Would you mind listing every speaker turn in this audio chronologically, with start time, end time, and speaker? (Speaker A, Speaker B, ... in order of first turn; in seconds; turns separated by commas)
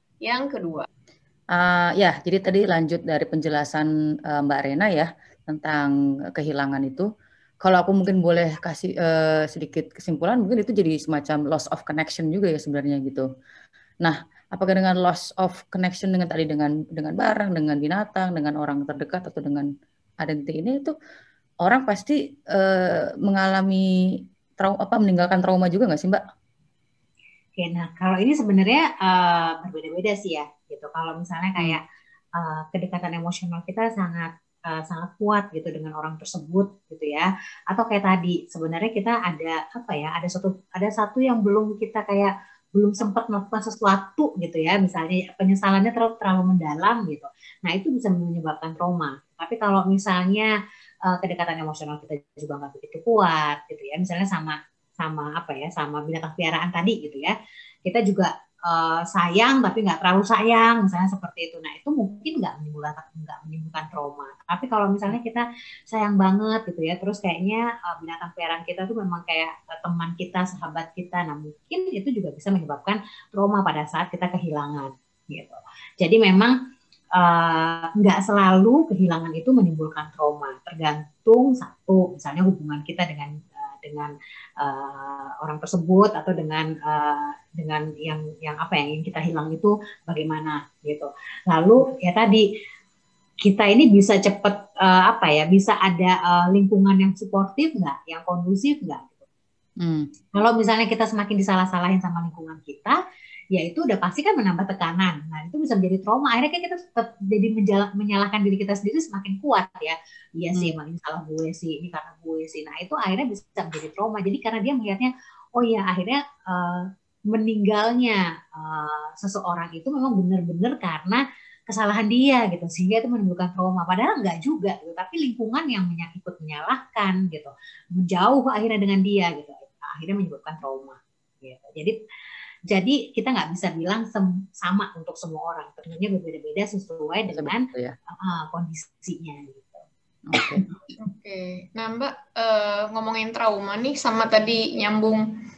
Speaker A: 0.2-0.9, Speaker B: 1.5-7.1, Speaker B: 7.6-13.3, Speaker B: 14.0-19.7, Speaker B: 20.2-20.9, Speaker B: 21.6-23.8, Speaker B: 24.6-26.2, Speaker C: 27.6-31.8, Speaker C: 32.4-50.5, Speaker C: 51.1-57.3, Speaker C: 57.9-76.5, Speaker C: 77.2-92.4, Speaker C: 93.4-99.2, Speaker B: 99.8-100.1, Speaker C: 100.3-103.0, Speaker C: 103.5-132.0, Speaker C: 132.7-137.7, Speaker B: 137.3-137.9, Speaker C: 138.2-139.8, Speaker B: 140.3-140.6, Speaker A: 141.0-145.3